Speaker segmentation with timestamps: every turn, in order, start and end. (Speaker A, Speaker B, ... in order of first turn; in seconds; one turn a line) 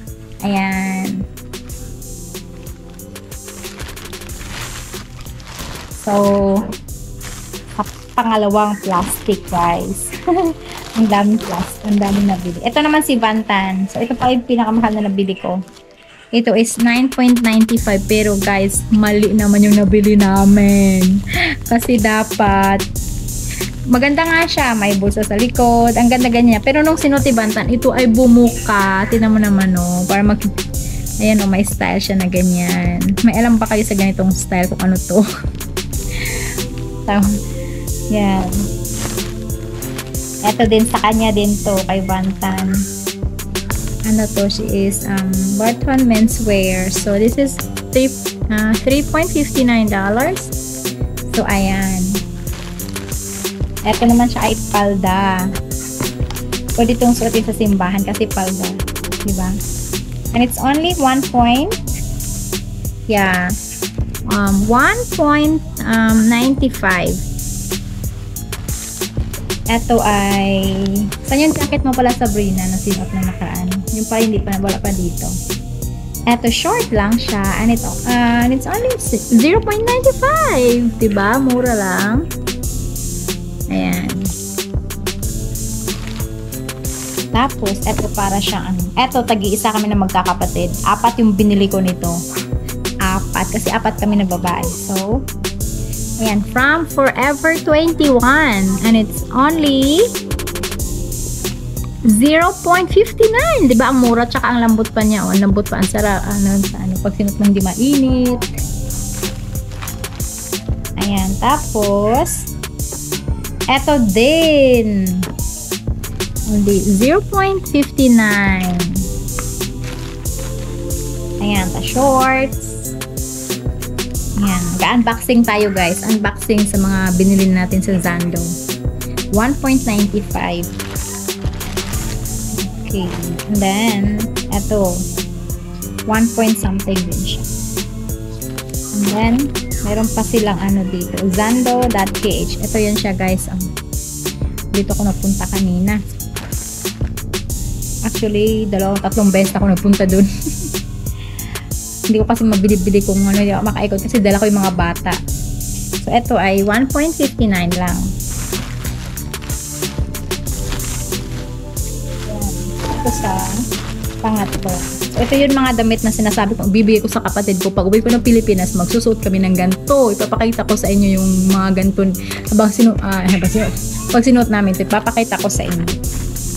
Speaker A: 0.4-1.3
Speaker A: 6.0-6.7
Speaker A: 7.8-15.6
Speaker A: 16.4-22.8
Speaker A: 23.9-30.4
Speaker A: 31.2-35.2
Speaker A: 38.1-38.6
Speaker A: 40.4-42.8
Speaker A: 44.1-50.5
Speaker A: 51.3-52.2
Speaker A: 53.9-55.5
Speaker A: 56.8-59.5
Speaker A: 60.3-61.8
Speaker A: 63.1-63.5
Speaker A: 64.3-67.2
Speaker A: 69.7-75.3
Speaker A: 76.3-82.2
Speaker A: 83.7-84.3
Speaker A: 87.3-92.2
Speaker A: 93.1-95.2
Speaker A: 96.2-100.1
Speaker A: 102.1-108.4
Speaker A: 111.0-112.5
Speaker A: 113.7-115.3
Speaker A: 116.5-119.1
Speaker A: 121.4-123.0
Speaker A: 124.4-128.5
Speaker A: 129.3-130.7
Speaker A: 132.6-135.0
Speaker A: 136.1-137.5
Speaker A: 138.9-143.6
Speaker A: 144.8-146.0
Speaker A: 148.1-150.3
Speaker A: 152.1-155.2
Speaker A: 156.0-158.0
Speaker A: 162.3-163.6
Speaker A: 164.2-175.9